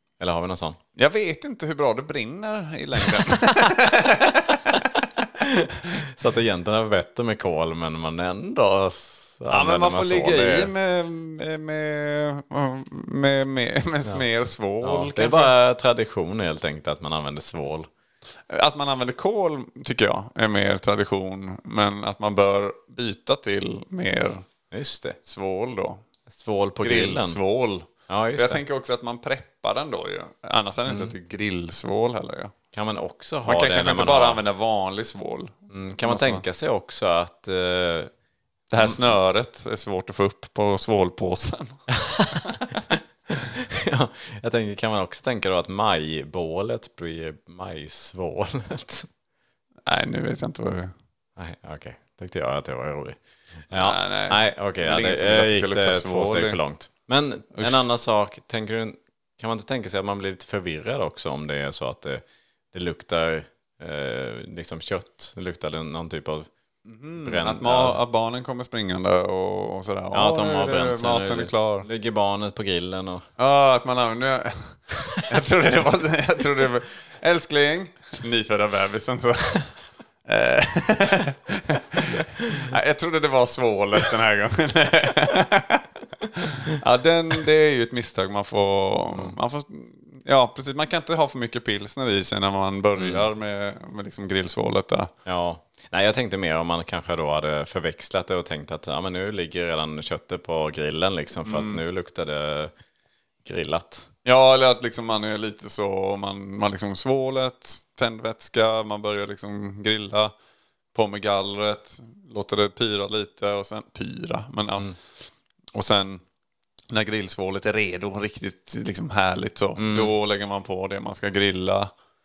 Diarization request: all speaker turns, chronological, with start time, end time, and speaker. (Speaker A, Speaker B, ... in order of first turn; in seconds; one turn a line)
Speaker A: 0.2-0.8
Speaker B: 0.9-4.8
Speaker A: 4.7-10.7
Speaker B: 9.5-15.5
Speaker A: 14.8-17.9
Speaker B: 18.5-24.4
Speaker A: 24.7-25.2
Speaker B: 25.2-26.0
Speaker A: 26.3-27.4
Speaker B: 26.8-32.5
Speaker A: 28.1-28.6
Speaker A: 30.9-31.1
Speaker A: 32.7-34.4
Speaker B: 33.4-36.4
Speaker A: 35.7-38.1
Speaker B: 38.7-41.8
Speaker A: 41.9-49.1
Speaker B: 49.9-50.9
Speaker A: 51.4-66.5
Speaker B: 53.7-56.6
Speaker B: 57.5-57.9
Speaker B: 66.8-71.9
Speaker A: 67.2-68.0
Speaker A: 70.1-73.2
Speaker B: 73.4-79.7
Speaker B: 80.2-95.1
Speaker A: 93.0-93.2
Speaker A: 95.2-102.7
Speaker B: 101.4-101.8
Speaker A: 103.4-104.1
Speaker B: 104.2-110.3
Speaker B: 110.9-114.9
Speaker B: 115.7-116.2
Speaker B: 116.9-121.9
Speaker A: 119.8-120.1